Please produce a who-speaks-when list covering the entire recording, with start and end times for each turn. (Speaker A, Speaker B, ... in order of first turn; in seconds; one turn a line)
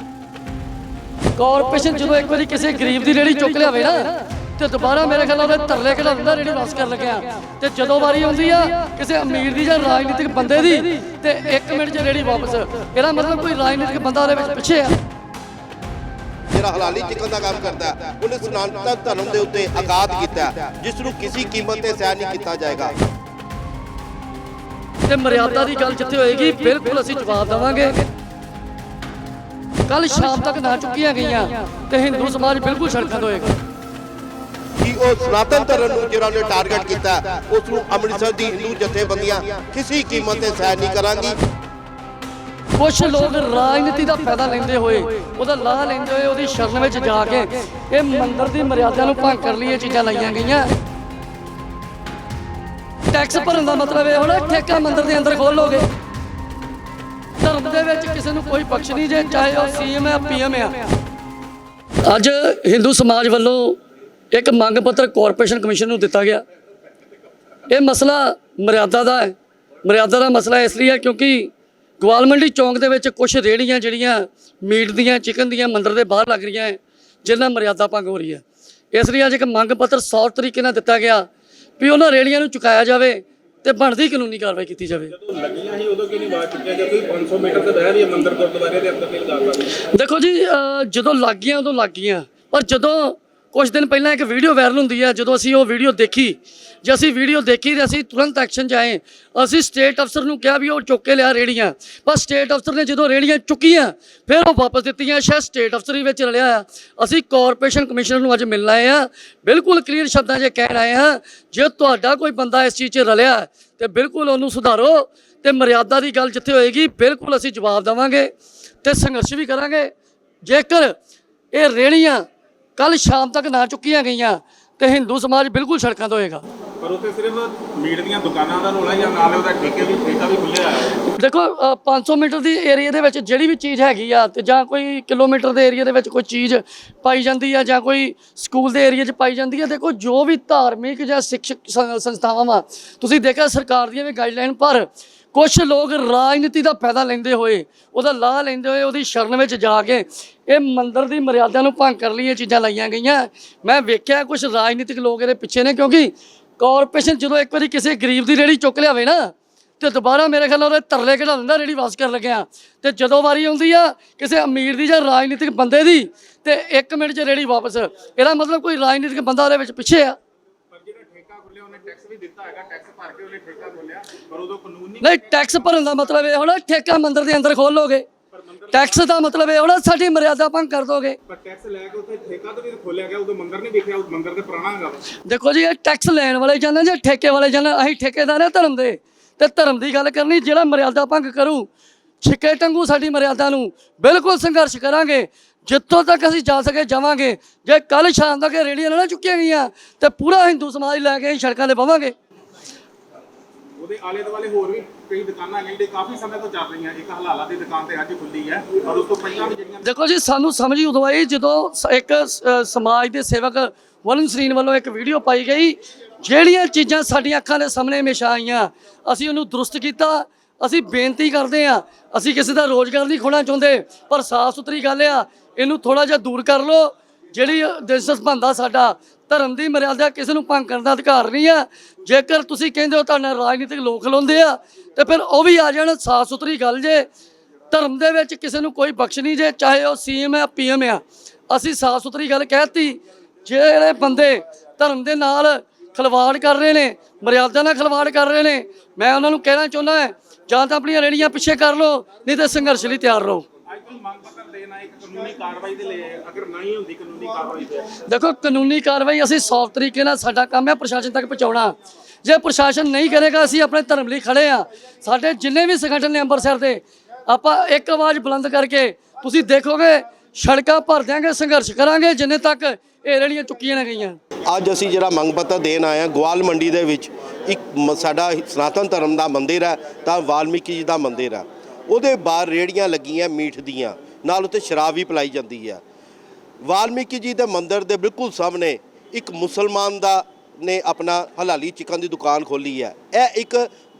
Speaker A: 1.4-15.0
Speaker B: 16.5-23.0
Speaker A: 25.1-28.0
Speaker A: 29.9-33.5
Speaker B: 34.8-41.4
Speaker A: 42.7-50.7
Speaker A: 53.1-55.9
Speaker A: 57.4-60.9
Speaker A: 62.0-63.8
Speaker A: 64.3-66.4
Speaker A: 67.7-81.3
Speaker A: 81.8-85.1
Speaker C: 85.1-89.8
Speaker A: 89.8-118.3
Speaker A: 118.8-119.9
Speaker A: 120.4-121.0
Speaker A: 121.5-122.2
Speaker A: 122.8-126.4
Speaker C: 126.8-131.0
Speaker A: 131.1-170.2
Speaker C: 170.7-175.1
Speaker A: 175.0-178.1
Speaker C: 178.3-179.1
Speaker A: 178.7-181.2
Speaker C: 181.3-185.0
Speaker A: 185.2-191.7
Speaker A: 192.2-202.1
Speaker C: 203.8-209.9
Speaker A: 209.8-237.1
Speaker A: 237.7-253.4
Speaker C: 253.7-258.0
Speaker A: 258.0-274.2
Speaker B: 274.5-285.8
Speaker B: 286.6-293.7